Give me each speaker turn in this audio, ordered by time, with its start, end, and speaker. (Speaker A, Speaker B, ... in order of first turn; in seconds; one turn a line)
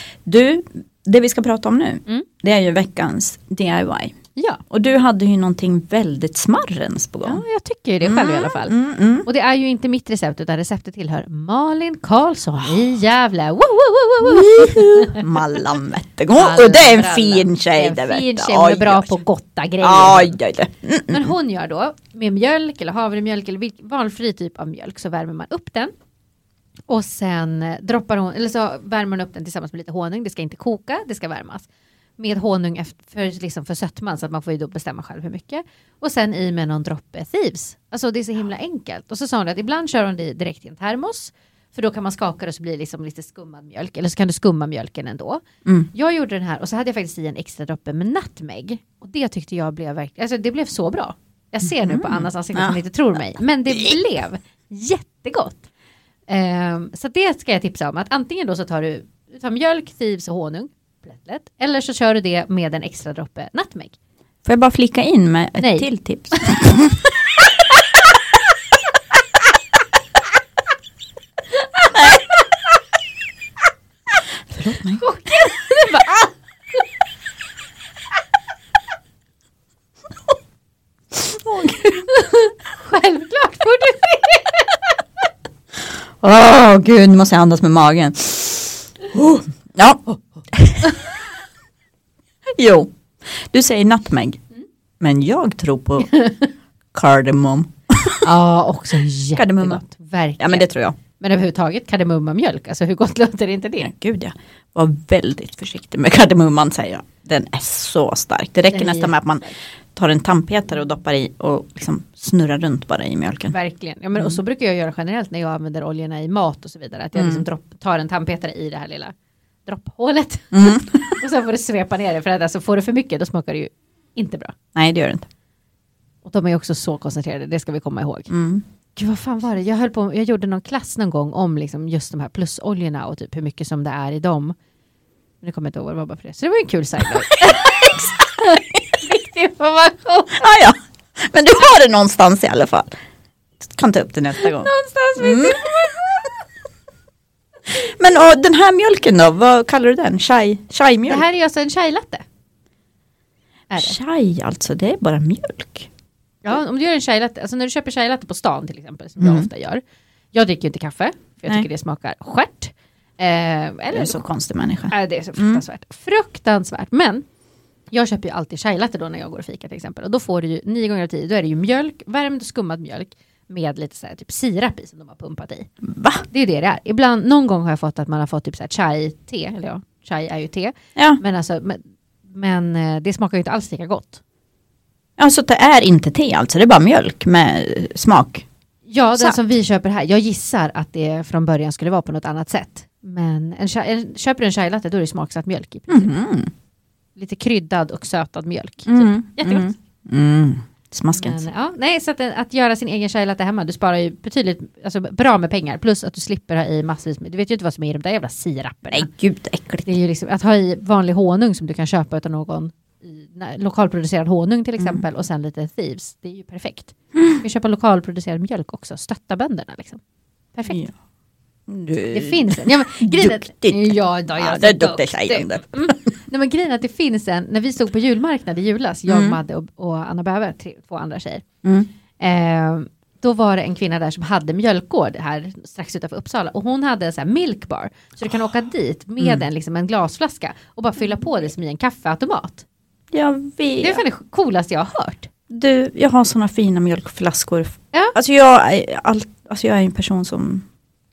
Speaker A: 0.2-7.4
Speaker B: 4.4-4.6
Speaker B: 7.2-15.4
Speaker A: 8.0-9.3
Speaker A: 14.2-19.2
Speaker B: 16.3-20.4
Speaker A: 19.8-21.3
Speaker B: 21.1-25.9
Speaker B: 26.9-55.7
Speaker A: 51.8-52.8
Speaker A: 53.7-54.0
Speaker B: 56.3-64.0
Speaker A: 64.4-67.1
Speaker B: 65.6-65.9
Speaker B: 71.8-72.0
Speaker A: 74.5-75.0
Speaker B: 75.0-76.3
Speaker A: 81.1-82.1
Speaker B: 82.1-85.0
Speaker A: 86.2-91.0
Speaker A: 92.5-92.9
Speaker A: 93.4-94.4
Speaker A: 95.0-96.2
Speaker B: 96.1-96.5
Speaker A: 96.9-98.2
Speaker B: 98.2-103.9
Speaker A: 99.3-99.8
Speaker A: 100.4-101.0
Speaker A: 103.8-113.5
Speaker B: 108.7-109.1
Speaker B: 113.5-119.1
Speaker A: 117.2-117.4
Speaker B: 119.7-124.6
Speaker A: 120.5-121.2
Speaker A: 124.7-125.3
Speaker B: 126.2-128.3
Speaker A: 128.3-128.6
Speaker B: 128.9-134.6
Speaker B: 135.4-140.5
Speaker A: 137.4-138.1
Speaker A: 140.3-142.9
Speaker A: 143.6-145.7
Speaker B: 144.4-146.3
Speaker A: 147.7-151.2
Speaker B: 151.1-152.2
Speaker B: 153.7-154.0
Speaker A: 153.8-155.9
Speaker B: 156.4-159.8
Speaker A: 159.2-159.5
Speaker B: 160.3-164.3
Speaker A: 163.9-165.6
Speaker B: 164.9-167.2
Speaker B: 167.9-175.7
Speaker A: 175.8-176.2
Speaker B: 176.3-184.2
Speaker A: 185.2-188.4
Speaker B: 188.9-196.2
Speaker A: 195.9-196.5
Speaker B: 197.2-199.7
Speaker A: 198.9-201.4
Speaker B: 201.1-209.1
Speaker A: 208.9-209.9
Speaker B: 209.9-220.0
Speaker B: 220.6-220.8
Speaker A: 221.7-225.9
Speaker B: 222.1-231.4
Speaker A: 229.1-229.4
Speaker A: 231.6-231.9
Speaker B: 232.2-242.7
Speaker A: 243.1-244.0
Speaker B: 243.8-245.3
Speaker A: 245.5-250.7